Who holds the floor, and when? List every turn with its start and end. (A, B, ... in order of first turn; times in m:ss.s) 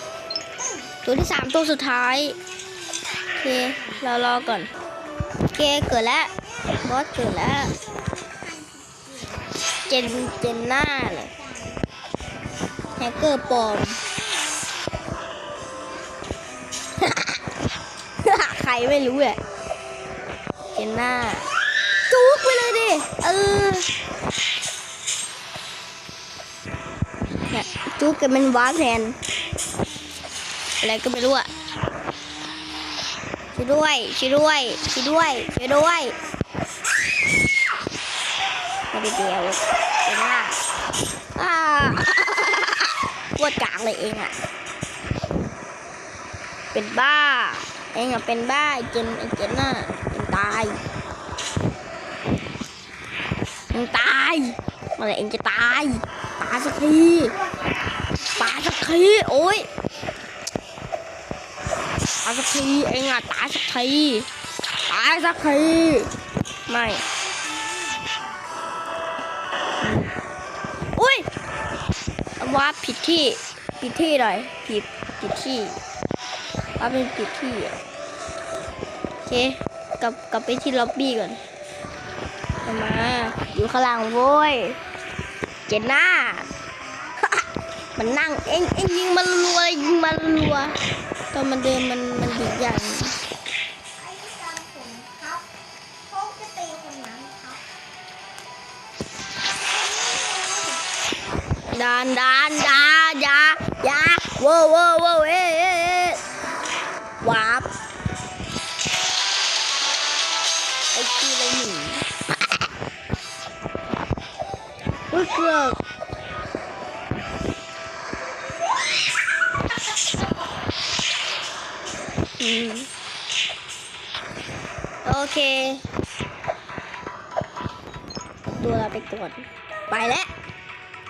0:01.0-0:02.4 A
0:03.4-0:04.7 A
0:05.4-0:06.3 A
0:06.8-0:07.8 A
0:08.1-0:09.5 B
0:09.9-0:11.4 A
0:13.0-0:14.0 A
0:14.4-0:15.2 B
0:17.0-0:17.4 A
0:18.2-0:19.4 A
0:20.7-0:21.5 A
0:22.1-0:23.9 A
0:27.5-0:29.2 A
0:30.8-0:31.5 A
0:33.5-0:36.2 A
0:38.9-0:40.6 A
0:41.4-0:44.4 A
0:46.7-0:50.8 A
0:53.7-0:57.4 A
0:58.3-0:59.7 A
1:02.2-1:04.3 A
1:04.9-1:06.1 A
1:06.7-1:07.1 A
1:07.4-1:08.4 B
1:11.0-1:11.3 A
1:12.4-1:15.8 A
1:16.8-1:17.8 A
1:19.3-1:21.4 A
1:22.6-1:24.8 A
1:25.7-1:26.5 A
1:27.2-1:30.8 A
1:31.3-1:33.2 A
1:34.0-1:35.4 B
1:36.1-1:37.6 B
1:40.2-1:40.8 B
1:41.7-1:46.2 A
1:47.2-1:47.7 A
1:51.0-1:52.1 A
1:55.1-1:55.8 A
2:02.4-2:02.9 A
2:05.0-2:05.8 A
2:08.6-2:10.3 A